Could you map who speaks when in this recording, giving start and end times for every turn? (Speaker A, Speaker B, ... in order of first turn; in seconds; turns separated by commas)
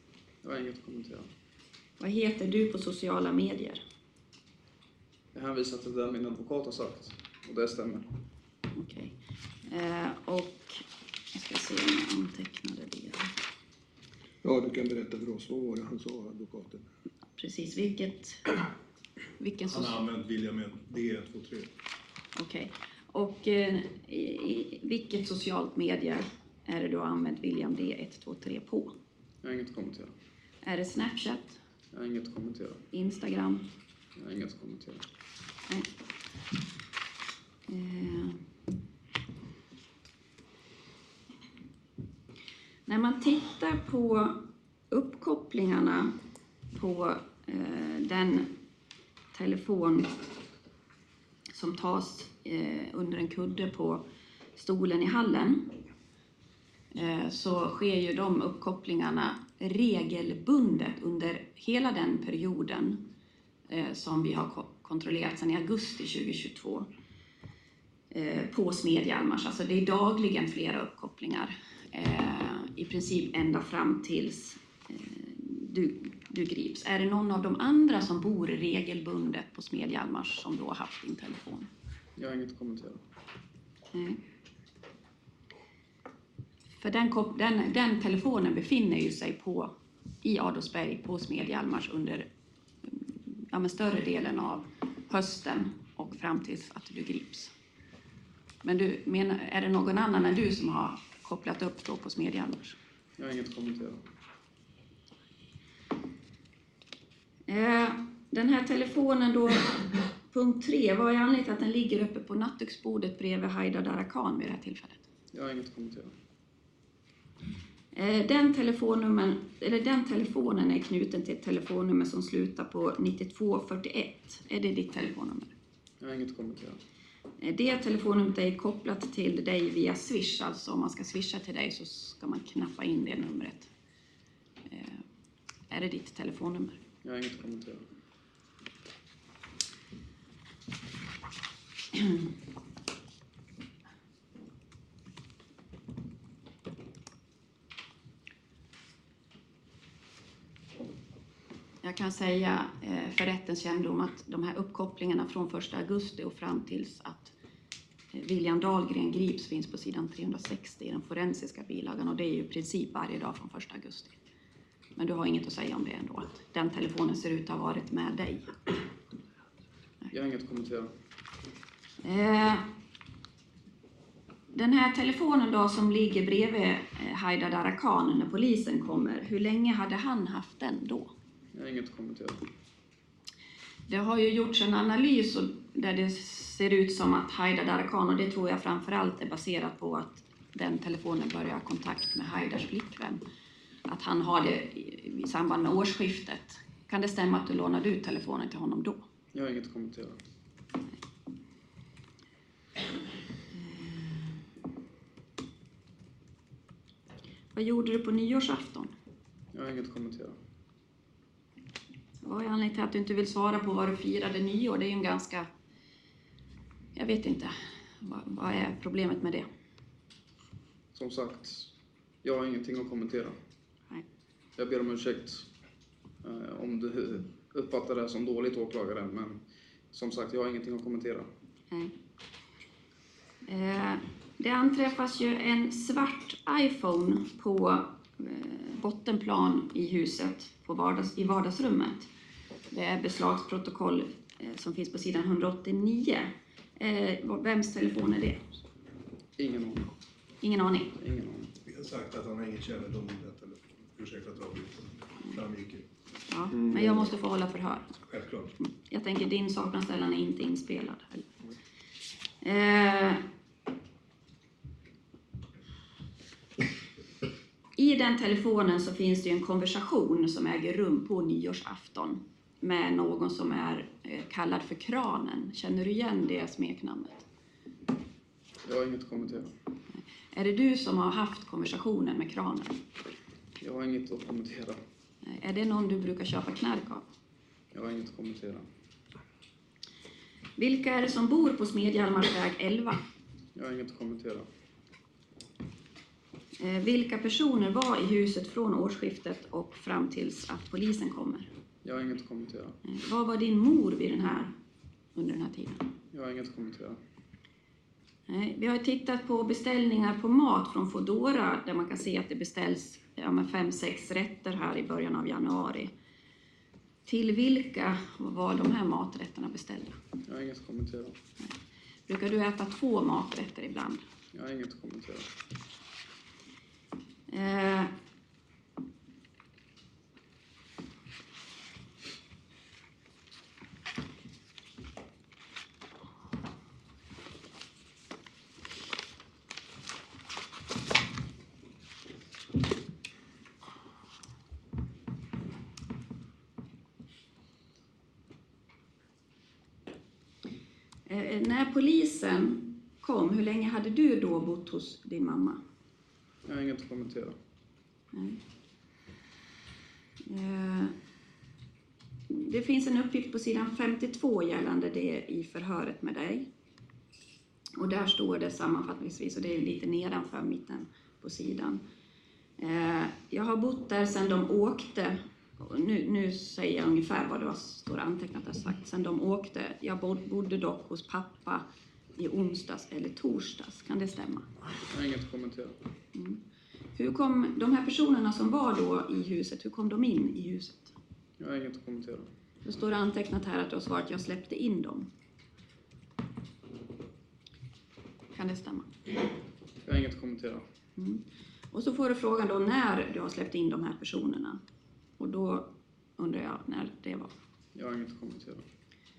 Speaker A: 0.4-1.3, Speaker B: 2.0-3.8, Speaker A: 5.3-8.1, Speaker B: 8.7-13.3, Speaker C: 14.4-16.8, Speaker B: 17.4-18.5, Speaker B: 19.4-20.0, Speaker D: 19.7-21.7, Speaker B: 22.4-29.0, Speaker A: 29.4-30.1, Speaker B: 30.6-31.6, Speaker A: 31.9-32.9, Speaker B: 32.9-33.7, Speaker A: 34.2-35.1, Speaker B: 37.7-38.4, Speaker B: 42.9-46.2, Speaker B: 46.7-48.6, Speaker B: 49.3-50.1, Speaker B: 51.5-55.8, Speaker B: 56.9-63.1, Speaker B: 63.7-66.9, Speaker B: 68.1-81.7, Speaker A: 82.2-83.0, Speaker B: 83.9-84.2, Speaker B: 86.8-92.3, Speaker B: 92.9-97.5, Speaker B: 98.6-102.8, Speaker A: 103.2-104.0, Speaker B: 107.5-115.0, Speaker A: 115.3-116.1, Speaker B: 117.9-125.5, Speaker A: 126.0-126.8, Speaker B: 127.4-133.7, Speaker B: 134.7-135.0, Speaker B: 135.7-136.8, Speaker A: 137.0-137.8, Speaker B: 141.9-142.2, Speaker B: 151.8-157.3, Speaker B: 158.1-164.2, Speaker B: 165.0-168.6, Speaker A: 170.1-170.9, Speaker B: 172.0-172.7, Speaker B: 174.5-181.1, Speaker A: 181.5-182.4, Speaker B: 183.9-193.2, Speaker B: 193.8-199.0, Speaker A: 199.3-200.2, Speaker B: 203.5-204.4, Speaker B: 207.6-208.9, Speaker A: 209.5-210.4, Speaker B: 212.2-215.5, Speaker B: 216.9-219.5, Speaker A: 220.9-221.7, Speaker A: 222.2-223.3, Speaker A: 224.6-225.5, Speaker A: 226.2-229.4, Speaker A: 229.9-231.3, Speaker B: 233.4-242.1, Speaker B: 242.7-248.5, Speaker A: 249.4-249.9, Speaker B: 250.4-250.9, Speaker A: 251.0-251.5, Speaker D: 251.7-255.8, Speaker B: 256.3-258.0, Speaker D: 258.1-258.5, Speaker B: 258.6-261.3, Speaker B: 262.4-263.2, Speaker B: 267.8-277.3, Speaker A: 278.6-279.5, Speaker B: 280.3-282.8, Speaker A: 283.6-284.8, Speaker B: 285.2-287.1, Speaker A: 287.7-288.7, Speaker B: 290.6-293.0, Speaker A: 293.6-294.5, Speaker B: 296.6-301.5, Speaker A: 301.8-302.8, Speaker B: 302.8-304.6, Speaker B: 305.1-305.9, Speaker A: 306.1-307.0, Speaker B: 308.3-315.9, Speaker B: 317.1-320.0, Speaker A: 320.2-321.2, Speaker B: 322.1-324.0, Speaker A: 324.3-325.3, Speaker B: 327.3-327.9, Speaker B: 351.1-355.6, Speaker A: 356.5-357.4, Speaker B: 358.1-358.4, Speaker B: 360.2-360.9, Speaker B: 362.3-366.5, Speaker B: 367.8-371.8, Speaker B: 372.6-381.7, Speaker B: 382.2-384.5, Speaker A: 384.9-385.8, Speaker B: 386.1-386.4, Speaker B: 386.9-390.9, Speaker A: 391.4-392.3, Speaker B: 392.6-395.1, Speaker B: 398.3-398.9, Speaker A: 399.9-400.6, Speaker B: 401.0-404.6, Speaker B: 405.2-407.3, Speaker A: 407.8-408.6